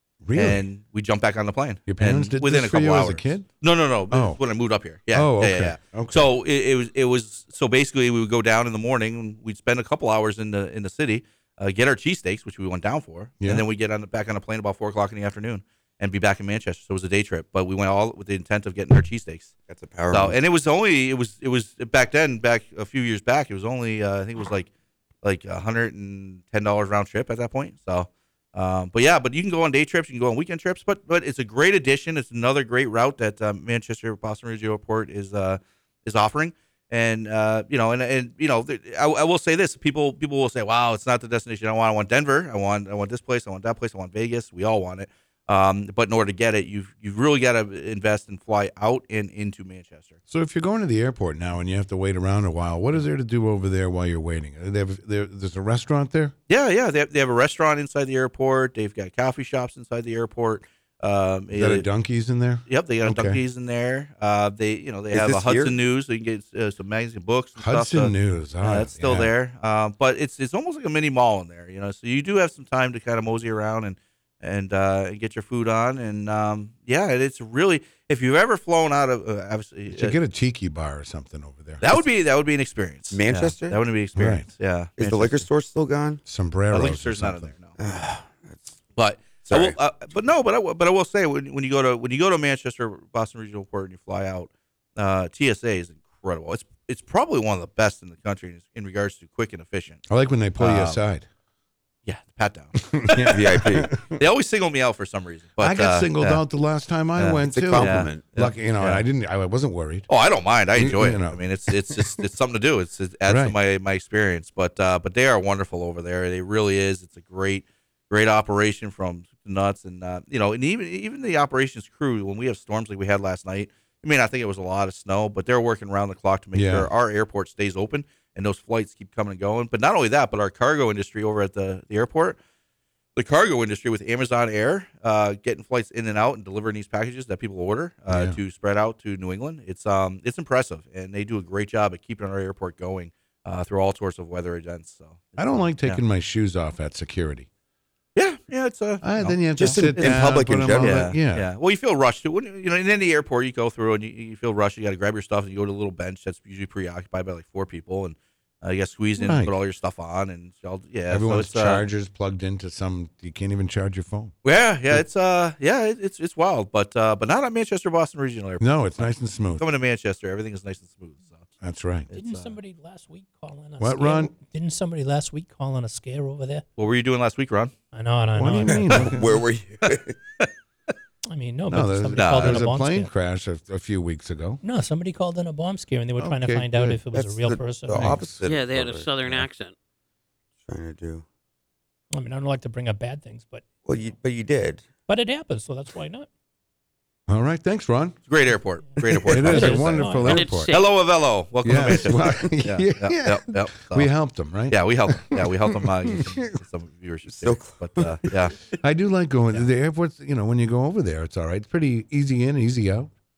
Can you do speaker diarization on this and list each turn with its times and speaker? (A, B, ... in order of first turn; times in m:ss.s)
0:00.2-0:00.6 A
0:00.3-0:19.5 B
0:01.9-0:03.5 A
0:04.1-0:04.4 A
0:05.1-0:06.3 A
0:13.4-0:13.6 A
0:19.7-0:20.4 C
0:20.1-0:24.7 B
0:25.2-0:50.2 B
0:50.3-0:56.3 A
0:56.5-1:01.8 B
1:01.5-1:03.4 A
1:02.7-1:20.2 B
1:05.1-1:05.8 C
1:07.6-1:09.3 A
1:19.9-1:22.0 A
1:21.8-1:25.5 B
1:23.1-1:23.8 C
1:24.2-1:24.4 A
1:25.0-1:26.2 C
1:26.2-1:27.5 A
1:26.7-1:27.7 B
1:27.8-1:28.8 C
1:29.0-1:40.0 B
1:29.4-1:29.8 C
1:40.1-1:41.2 A
1:40.6-1:41.0 B
1:42.0-1:43.4 B
1:42.8-1:44.2 A
1:43.3-1:44.0 C
1:44.1-1:46.4 B
1:45.6-1:50.1 A
1:47.2-1:49.0 B
1:47.5-1:48.2 C
1:50.1-2:12.4 B
1:50.8-1:52.2 A
1:53.2-1:53.5 A
2:06.5-2:06.9 A
2:13.2-2:26.0 B
2:18.1-2:18.4 A
2:25.4-2:27.5 A
2:28.2-2:41.8 B
2:29.0-2:31.5 A
2:29.6-2:31.1 C
2:39.2-2:39.6 A
2:41.1-2:44.3 A
2:44.4-2:51.5 B
2:48.6-2:49.6 A
2:51.6-2:52.1 A
2:52.1-2:52.5 B
2:52.1-2:56.6 D
2:53.8-2:54.3 A
2:56.8-2:57.7 B
2:57.9-2:59.1 D
2:58.4-2:59.4 A
2:59.0-3:00.1 C
3:01.3-3:03.1 D
3:01.7-3:04.6 A
3:02.1-3:02.6 B
3:04.6-3:08.2 D
3:06.2-3:07.0 A
3:07.1-3:09.5 C
3:07.9-3:08.4 A
3:08.4-3:09.7 E
3:10.7-3:11.2 C
3:12.1-3:13.6 D
3:13.8-3:14.8 C
3:15.1-3:16.3 D
3:17.3-3:18.2 A
3:18.3-3:24.1 B
3:19.2-3:20.7 A
3:19.3-3:20.5 D
3:20.2-3:20.9 E
3:21.6-3:26.6 A
3:24.7-3:28.6 B
3:27.4-3:28.3 C
3:28.8-3:33.1 A